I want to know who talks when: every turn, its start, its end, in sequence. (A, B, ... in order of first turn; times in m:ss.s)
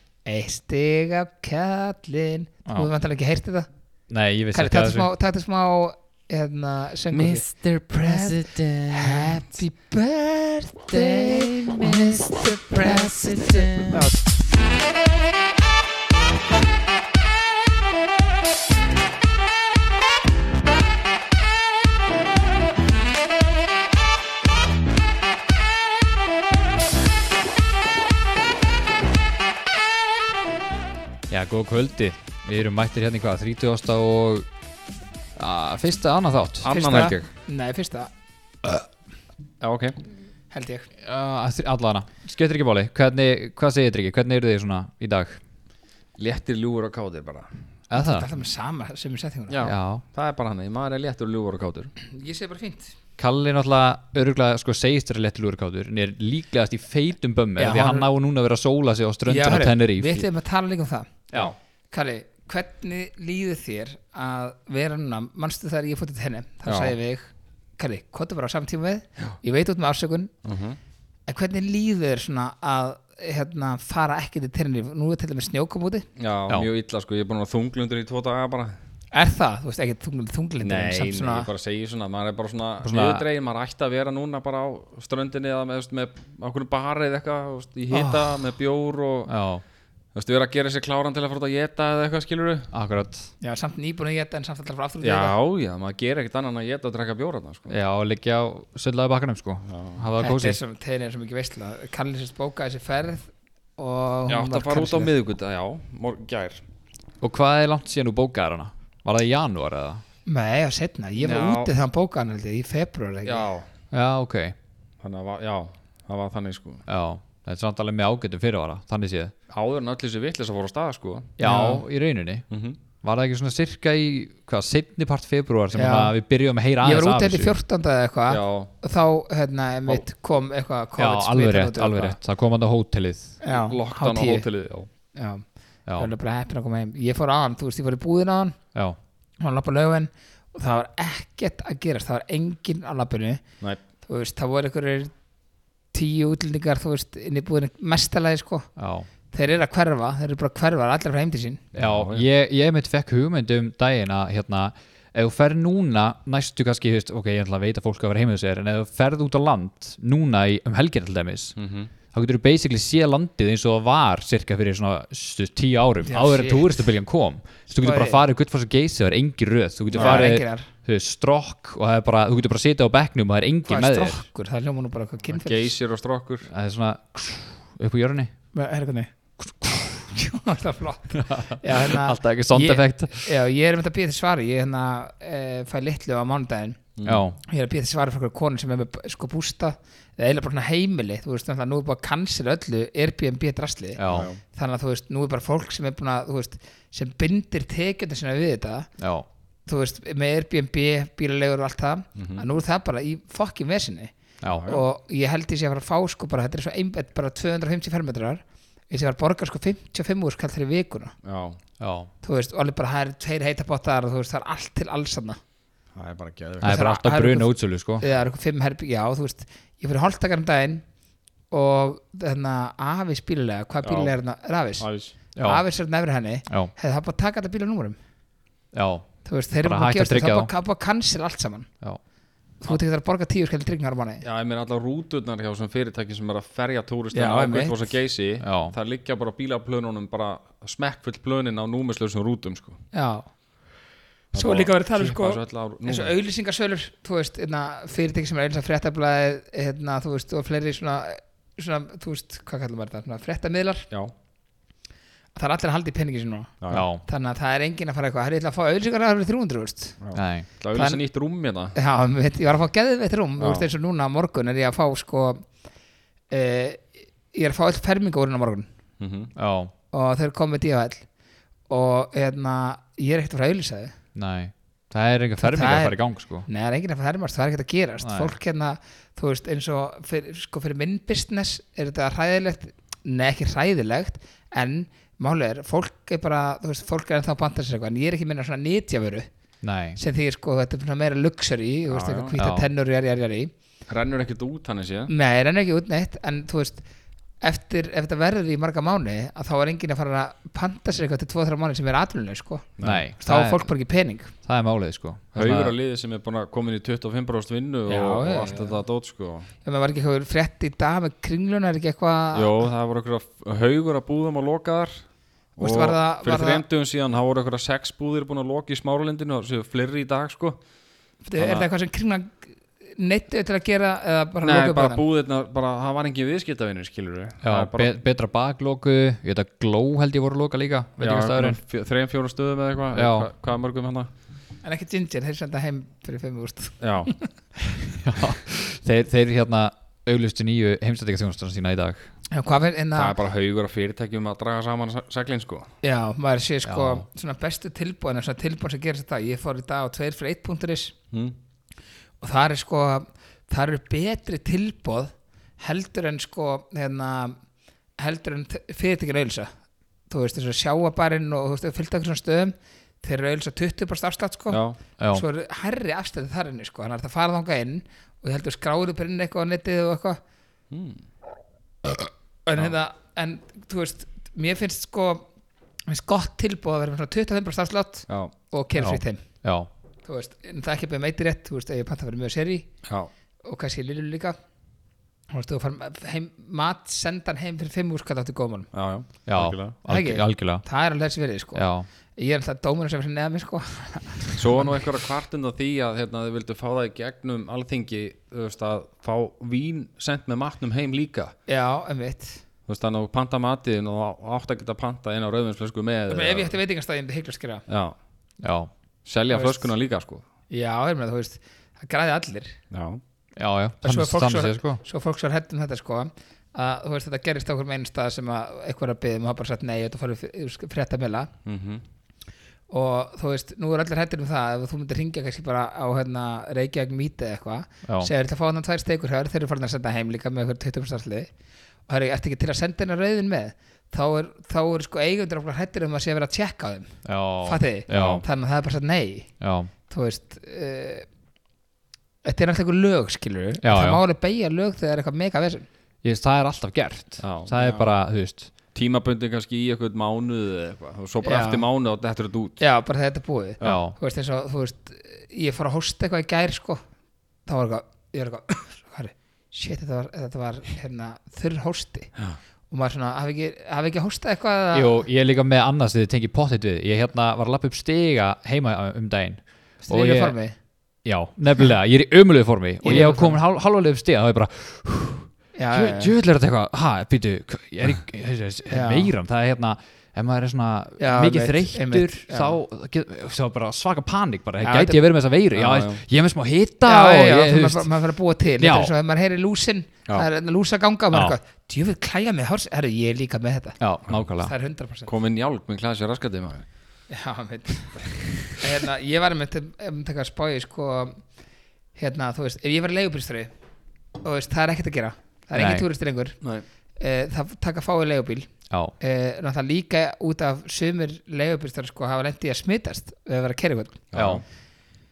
0:00.2-0:03.7 A
0:04.1-0:05.1 B
0:04.5-0:14.2 A
0:07.1-0:09.5 C
0:10.9-0:14.0 C
0:31.3-0:34.5 B
0:35.4-0:36.7 B
0:36.6-0:37.3 C
0:36.7-0:38.1 A
0:39.6-0:40.0 C
0:40.5-0:40.9 A
0:41.0-0:45.4 B
0:46.2-0:47.5 C
0:47.9-0:48.3 B
0:47.9-0:49.7 A
0:49.5-0:51.9 C
0:49.6-0:50.0 B
0:52.0-0:53.0 A
0:53.2-1:00.3 B
0:57.6-0:58.1 A
0:59.3-1:01.3 A
1:01.9-1:10.3 A
1:06.7-1:06.9 C
1:10.4-1:10.8 C
1:11.3-1:16.1 A
1:16.2-1:18.8 C
1:19.1-1:21.5 A
1:20.6-1:29.3 C
1:22.8-1:23.2 B
1:27.9-1:28.2 A
1:29.3-1:29.6 B
1:30.2-1:32.7 C
1:32.7-1:33.3 B
1:33.4-1:35.3 A
1:35.0-1:37.7 C
1:37.7-1:40.6 B
1:39.7-1:40.0 C
1:40.2-1:45.1 A
1:44.3-1:46.6 C
1:47.2-1:50.0 B
1:50.2-1:53.5 A
1:51.2-1:51.7 C
1:53.2-1:53.7 C
1:53.9-1:54.5 B
1:55.0-1:56.8 C
1:56.9-1:59.3 B
1:59.5-2:01.8 C
2:01.4-2:02.4 B
2:01.4-2:01.7 A
2:02.5-2:02.8 C
2:03.0-2:07.5 B
2:05.7-2:06.1 A
2:06.8-2:12.2 A
2:08.3-2:08.7 C
2:11.0-2:13.4 B
2:13.4-2:14.5 A
2:13.4-2:14.9 C
2:15.1-2:18.6 A
2:19.4-2:23.4 A
2:24.0-2:25.1 A
2:25.9-2:28.7 A
2:28.8-2:29.1 B
2:29.3-2:31.6 A
2:31.7-2:32.2 C
2:31.7-2:41.5 B
2:41.6-2:41.9 C
2:42.1-2:54.2 B
2:46.0-2:46.7 A
2:47.8-2:48.2 A
2:49.9-2:50.2 C
2:49.9-2:50.7 A
2:53.7-2:55.7 A
2:55.3-2:56.5 C
2:56.5-2:58.3 B
2:58.5-3:06.8 A
3:01.2-3:03.3 B
3:07.0-3:07.2 C
3:07.0-3:07.4 B
3:07.4-3:18.9 A
3:14.0-3:14.3 B
3:14.1-3:14.4 C
3:19.0-3:19.3 B
3:19.7-3:24.1 A
3:22.2-3:22.4 C
3:24.4-3:24.7 B
3:24.4-3:24.8 C
3:24.6-3:31.1 A
3:31.2-3:31.6 C
3:31.8-3:32.1 B
3:32.2-3:35.4 A
3:35.9-3:36.8 C
3:36.6-3:38.1 B
3:36.6-3:40.8 A
3:41.5-3:44.9 A
3:43.8-3:44.1 C
3:44.8-3:45.2 C
3:45.4-3:45.6 B
3:45.4-3:48.0 A
3:48.7-3:49.1 B
3:49.2-3:51.7 A
3:49.6-3:50.5 B
3:52.6-3:54.2 A
3:54.2-4:02.8 C
3:57.1-3:57.8 A
3:58.4-3:58.8 B
4:02.9-4:03.3 A
4:04.3-4:06.1 C
4:04.3-4:13.9 A
4:15.3-4:20.0 A
4:16.6-4:16.9 C
4:16.7-4:17.0 B
4:20.0-4:21.8 C
4:20.1-4:20.5 B
4:20.7-4:21.0 A
4:21.8-4:25.4 A
4:23.4-4:23.7 C
4:26.3-4:28.7 A
4:29.0-4:29.3 C
4:29.4-4:29.7 B
4:29.9-4:31.0 A
4:31.7-4:33.9 A
4:34.2-4:36.5 B
4:35.4-4:49.3 A
4:38.0-4:38.3 B
4:49.6-4:50.0 B
4:50.0-4:53.5 A
4:51.9-4:52.3 C
4:52.4-4:52.7 B
4:53.9-4:55.1 C
4:55.1-4:56.8 A
4:57.4-5:04.3 A
5:02.8-5:03.0 C
5:02.8-5:03.7 B
5:04.4-5:05.8 B
5:05.3-5:09.5 C
5:07.9-5:08.8 A
5:09.6-5:12.6 A
5:12.3-5:15.0 C
5:15.6-5:20.6 C
5:15.6-5:16.6 A
5:21.2-5:25.0 A
5:21.4-5:21.7 C
5:24.4-5:27.9 C
5:27.4-5:31.6 B
5:31.0-5:34.1 C
5:32.9-5:33.3 B
5:34.6-5:37.3 A
5:36.8-5:37.1 C
5:38.0-5:42.1 B
5:42.3-5:43.2 A
5:42.9-5:45.7 C
5:45.8-5:50.9 A
5:46.6-5:47.0 B
5:52.2-5:57.4 A
5:58.0-5:59.5 A
6:00.1-6:10.2 A
6:04.5-6:04.8 C
6:05.0-6:05.2 B
6:10.7-6:11.0 C
6:12.4-6:15.2 A
6:15.9-6:19.2 A
6:18.8-6:19.7 B
6:20.0-6:22.7 A
6:22.8-6:23.1 C
6:23.4-6:24.4 A
6:25.3-6:28.7 A
6:28.7-6:29.8 C
6:29.2-6:30.6 B
6:29.9-6:34.7 A
6:31.6-6:31.9 B
6:34.3-6:41.3 C
6:41.5-6:42.4 A
6:42.7-6:46.6 C
6:46.1-6:47.6 A
6:47.7-6:47.9 C
6:48.4-6:48.7 B
6:49.0-6:50.2 C
6:49.3-6:49.7 A
6:50.5-6:52.6 A
6:52.7-6:53.0 C
6:53.4-6:54.8 B
6:53.8-7:01.3 A
7:01.4-7:01.8 C
7:02.7-7:11.3 A
7:07.8-7:08.1 B
7:11.9-7:19.3 A
7:17.0-7:18.2 B
7:17.9-7:18.2 C
7:19.4-7:19.7 B
7:19.9-7:21.1 A
7:22.2-7:25.7 A
7:23.6-7:24.0 B
7:26.0-7:28.5 B
7:27.2-7:27.9 C
7:28.7-7:32.6 C
7:31.2-7:31.6 A
7:32.6-7:36.8 A
7:33.6-7:34.0 B
7:37.4-7:42.1 A
7:42.7-7:45.0 A
7:44.7-7:50.4 B
7:49.8-7:50.6 A
7:51.0-8:07.9 B
7:52.8-7:53.4 A
7:55.6-7:56.1 A
7:58.7-7:59.1 A
8:01.0-8:02.6 A
8:04.6-8:05.0 A
8:05.5-8:06.0 C
8:06.8-8:13.8 A
8:08.6-8:08.9 B
8:13.8-8:14.5 B
8:14.4-8:15.1 A
8:15.1-8:16.6 C
8:17.1-8:21.2 A
8:22.0-8:23.5 A
8:24.2-8:26.4 A
8:25.6-8:25.8 B
8:27.0-8:34.1 A
8:34.1-8:34.4 C
8:34.1-8:34.4 B